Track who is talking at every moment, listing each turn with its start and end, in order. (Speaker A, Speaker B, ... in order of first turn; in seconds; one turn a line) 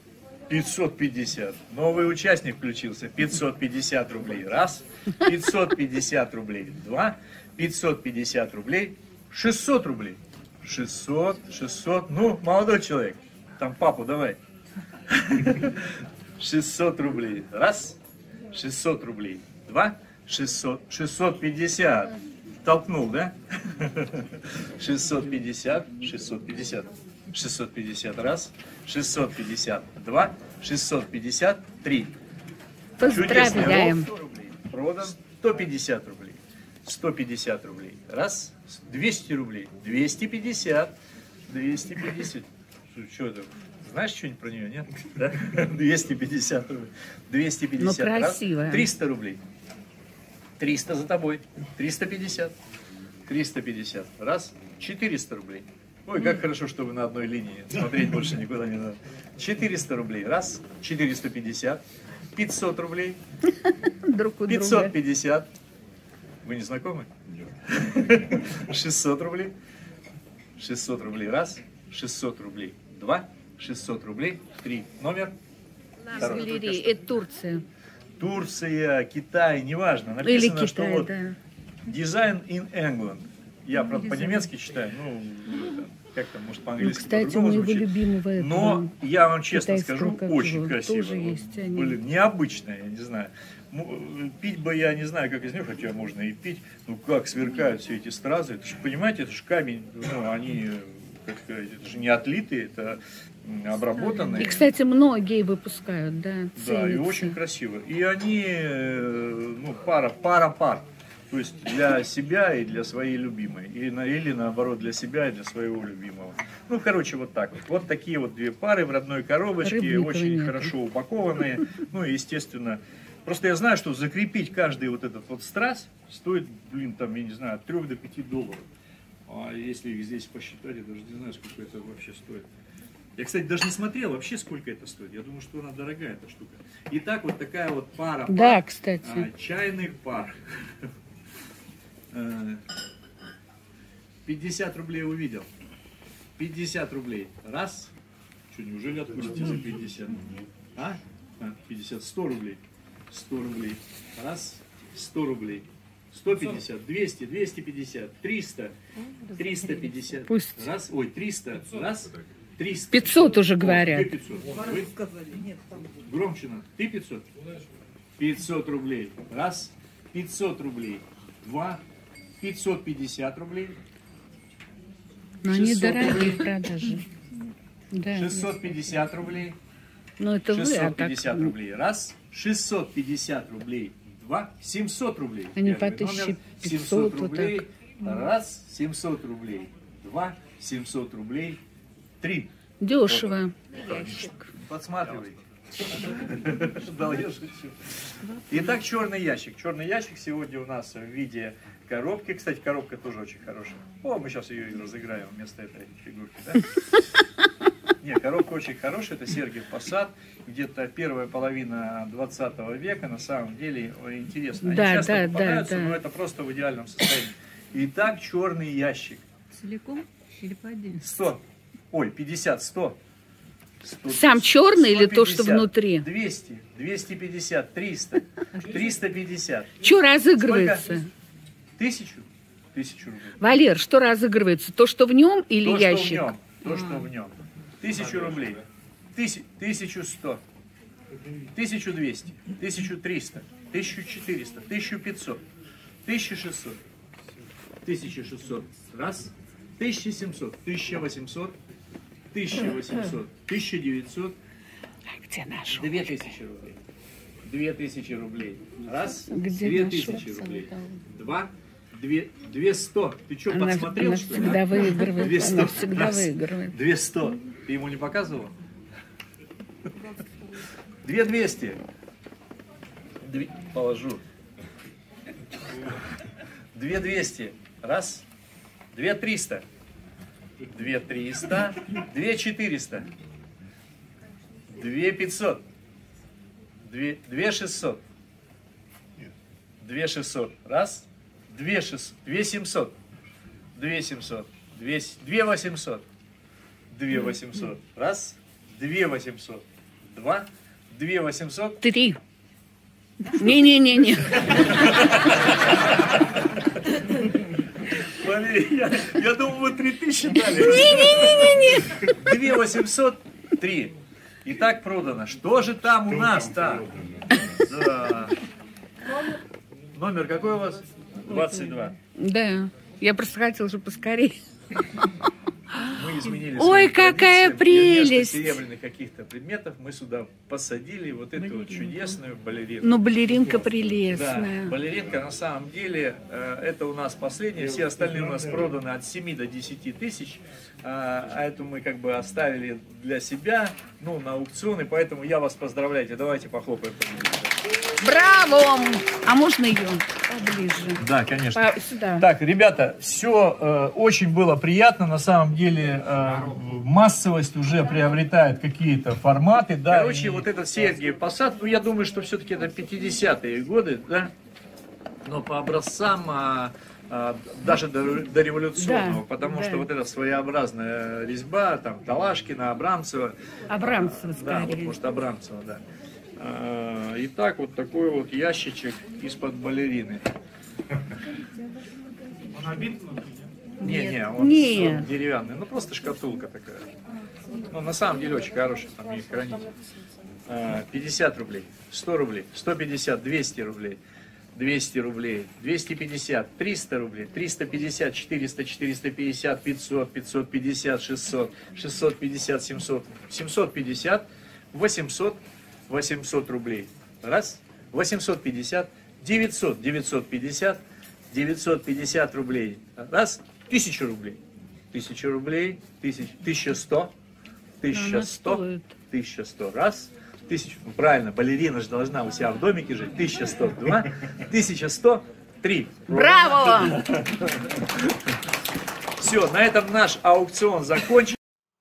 Speaker A: 0.5-14.4
Speaker A: 15.1-18.0
Speaker A: 18.5-32.1
Speaker B: 33.0-34.1
Speaker A: 33.0-40.9
Speaker A: 41.5-49.4
Speaker B: 47.8-48.9
Speaker A: 50.6-52.5
Speaker A: 53.3-61.8
Speaker A: 62.4-63.2
Speaker B: 63.9-65.0
Speaker A: 64.5-65.5
Speaker A: 66.4-67.1
Speaker A: 67.6-69.5
Speaker A: 70.6-75.3
Speaker B: 76.1-77.7
Speaker A: 76.1-77.0
Speaker A: 78.2-81.1
Speaker B: 80.2-81.4
Speaker A: 81.9-104.6
Speaker B: 84.0-84.5
Speaker B: 86.8-88.9
Speaker B: 89.5-92.0
Speaker B: 104.3-107.4
Speaker A: 106.6-128.7
Speaker B: 119.6-120.7
Speaker A: 129.3-132.5
Speaker A: 133.2-140.9
Speaker B: 138.3-139.3
Speaker A: 142.1-142.6
Speaker A: 144.2-145.5
Speaker A: 146.4-147.9
Speaker A: 148.5-158.7
Speaker C: 159.1-159.5
Speaker A: 159.4-165.0
Speaker B: 160.3-160.7
Speaker B: 162.9-164.1
Speaker A: 165.8-167.2
Speaker A: 168.2-171.8
Speaker A: 172.4-173.8
Speaker B: 175.4-177.1
Speaker A: 175.4-176.5
Speaker B: 177.9-178.7
Speaker A: 178.1-179.6
Speaker B: 180.2-181.6
Speaker A: 180.5-191.6
Speaker B: 185.6-187.6
Speaker A: 192.2-192.5
Speaker B: 192.8-194.5
Speaker A: 194.0-206.7
Speaker A: 208.0-219.3
Speaker B: 214.6-216.0
Speaker C: 219.5-221.0
Speaker A: 221.0-223.0
Speaker A: 223.8-229.8
Speaker B: 224.1-226.1
Speaker B: 229.8-231.1
Speaker A: 230.4-230.9
Speaker A: 231.8-233.4
Speaker B: 233.4-237.0
Speaker A: 235.6-238.6
Speaker A: 239.2-240.4
Speaker A: 241.5-245.4
Speaker A: 246.1-246.8
Speaker A: 247.8-251.6
Speaker A: 252.3-254.4
Speaker B: 255.1-256.2
Speaker A: 255.7-256.8
Speaker A: 257.4-268.5
Speaker B: 259.3-261.0
Speaker B: 263.5-266.8
Speaker A: 271.0-271.8
Speaker A: 273.2-274.2
Speaker A: 276.8-278.3
Speaker A: 278.9-279.6
Speaker A: 280.7-283.1
Speaker A: 284.7-285.6
Speaker A: 286.9-288.0
Speaker A: 289.8-292.9
Speaker A: 293.8-296.0
Speaker A: 296.9-301.8
Speaker B: 301.8-302.2
Speaker B: 303.3-305.1
Speaker A: 304.4-316.9
Speaker B: 310.6-312.2
Speaker A: 317.5-318.4
Speaker A: 319.9-322.0
Speaker B: 322.2-324.4
Speaker A: 325.8-333.0
Speaker B: 326.5-328.6
Speaker B: 332.8-334.8
Speaker A: 334.1-347.5
Speaker B: 348.0-351.0
Speaker A: 351.0-364.3
Speaker B: 351.5-352.3
Speaker A: 365.2-375.8
Speaker B: 368.8-369.9
Speaker B: 373.7-375.0
Speaker A: 376.4-380.2
Speaker A: 382.6-383.3
Speaker A: 383.8-386.9
Speaker B: 383.8-385.1
Speaker A: 387.7-389.7
Speaker A: 390.5-394.0
Speaker A: 394.6-410.8
Speaker A: 411.3-414.4
Speaker A: 414.9-417.1
Speaker A: 417.8-428.1
Speaker B: 417.9-418.9
Speaker B: 426.1-427.1
Speaker A: 429.2-431.4